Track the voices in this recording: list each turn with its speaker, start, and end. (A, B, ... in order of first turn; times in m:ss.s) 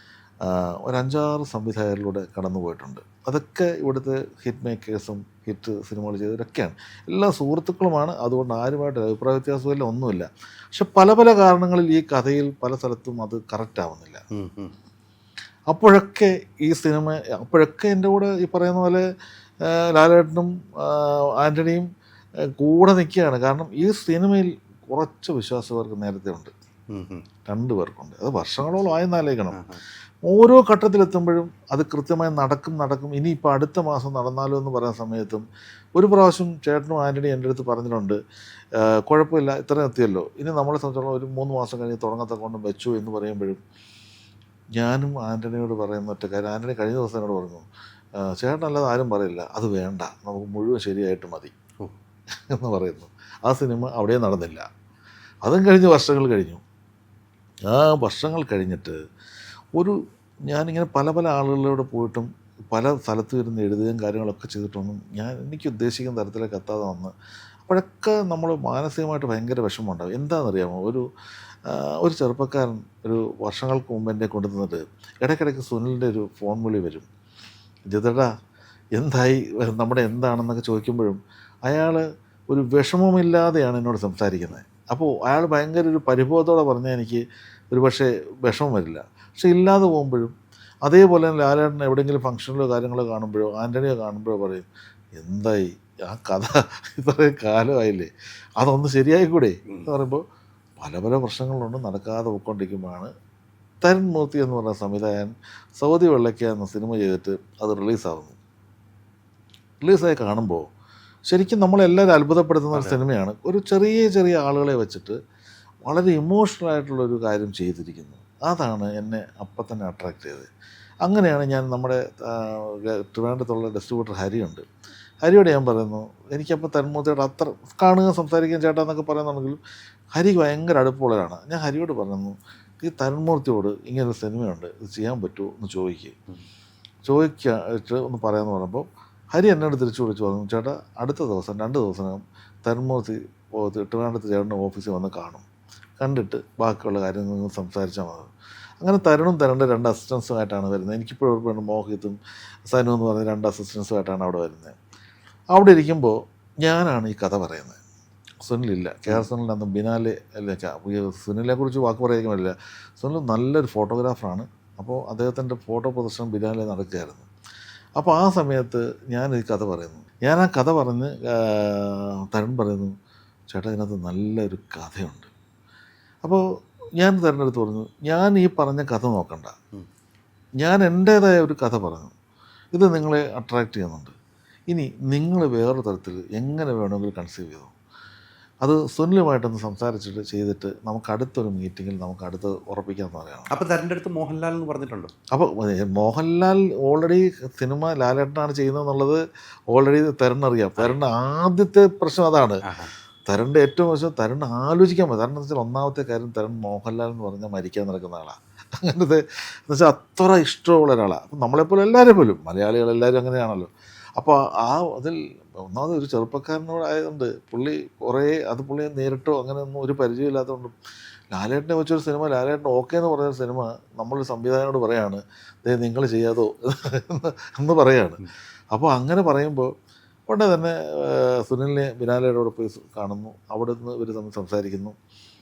0:00.4-0:14.2 A
0:14.3-0:14.7 B
0:15.7-0:19.0 A
0:19.6-0:21.9 A
0:22.5-0:26.5 A
0:26.9-0:27.2 B
0:27.5-0:29.6 A
0:29.5-0:29.8 B
0:30.2-0:35.4 A
0:36.0-0:38.2 A
0:38.8-0:43.6 A
0:44.8-0:51.6 A
0:52.5-0:54.7 A
0:55.4-0:56.6 A
0:57.7-0:59.0 A
0:59.7-1:07.1 A
1:07.7-1:11.0 A
1:11.7-1:17.1 A
1:17.9-1:18.3 A
1:19.0-1:30.3 A
1:30.8-1:40.2 A
1:40.8-1:43.1 A
1:43.8-1:48.4 A
1:49.8-1:50.6 A
1:51.3-1:55.2 A
1:52.7-1:53.0 B
1:55.8-2:00.5 A
2:01.0-2:04.6 A
2:05.2-2:09.6 A
2:10.1-2:16.2 A
2:17.0-2:25.5 A
2:26.0-2:34.8 A
2:35.5-2:37.8 A
2:38.4-2:47.3 A
2:48.0-2:52.9 A
2:53.5-2:55.3 A
2:57.0-2:59.5 A
3:00.6-3:02.1 A
3:02.7-3:04.1 A
3:04.7-3:07.7 A
3:08.6-3:13.5 A
3:13.5-3:15.1 B
3:15.3-3:22.6 A
3:22.6-3:22.9 B
3:23.3-3:40.7 A
3:41.3-3:49.7 A
3:50.3-3:54.9 A